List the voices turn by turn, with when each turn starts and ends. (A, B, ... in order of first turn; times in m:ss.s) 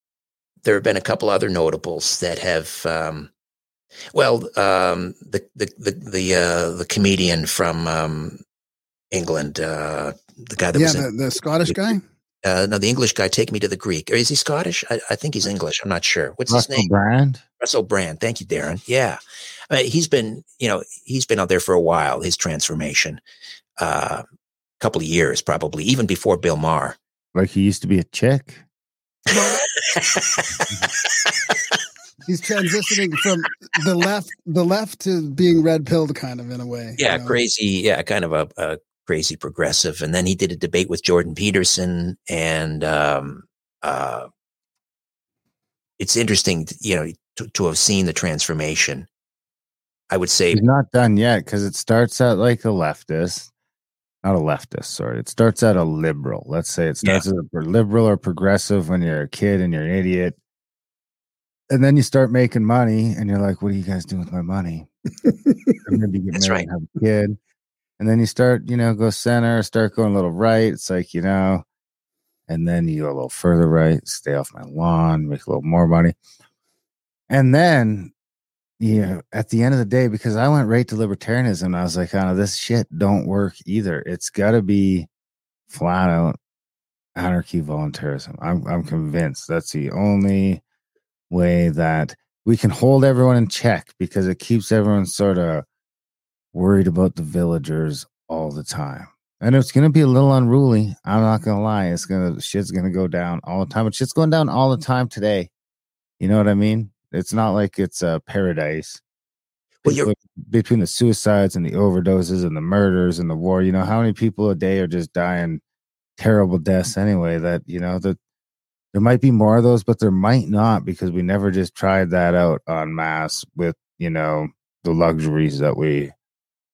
0:00.6-0:03.3 A
0:04.1-0:08.4 A
0:09.1-0:11.1 A
0:10.7-0:12.0 B
0:12.4-0:16.9 A
0:16.5-0:17.4 C
0:17.6-0:19.2 A
0:19.7-0:23.2 A
0:23.8-0:24.2 A
0:24.8-0:27.0 A
0:27.3-0:28.6 C
0:29.3-0:29.7 B
0:29.3-0:31.5 A
0:32.2-0:37.4 B
0:37.0-0:44.3 A
0:46.0-0:49.1 A
0:50.1-0:50.6 A
0:50.5-0:53.5 C
0:54.2-1:00.4 C
1:01.7-1:04.9 C
1:05.8-1:07.4 C
1:06.3-1:06.6 A
1:08.0-1:11.6 C
1:12.5-1:16.2 C
1:17.3-1:18.1 C
1:18.8-1:25.1 C
1:25.7-1:26.4 C
1:27.2-1:30.6 C
1:31.3-1:35.6 C
1:36.5-1:45.5 C
1:46.2-1:49.0 C
1:49.8-1:50.1 A
1:49.8-1:55.6 C
1:56.2-1:58.2 C
1:58.9-2:06.1 C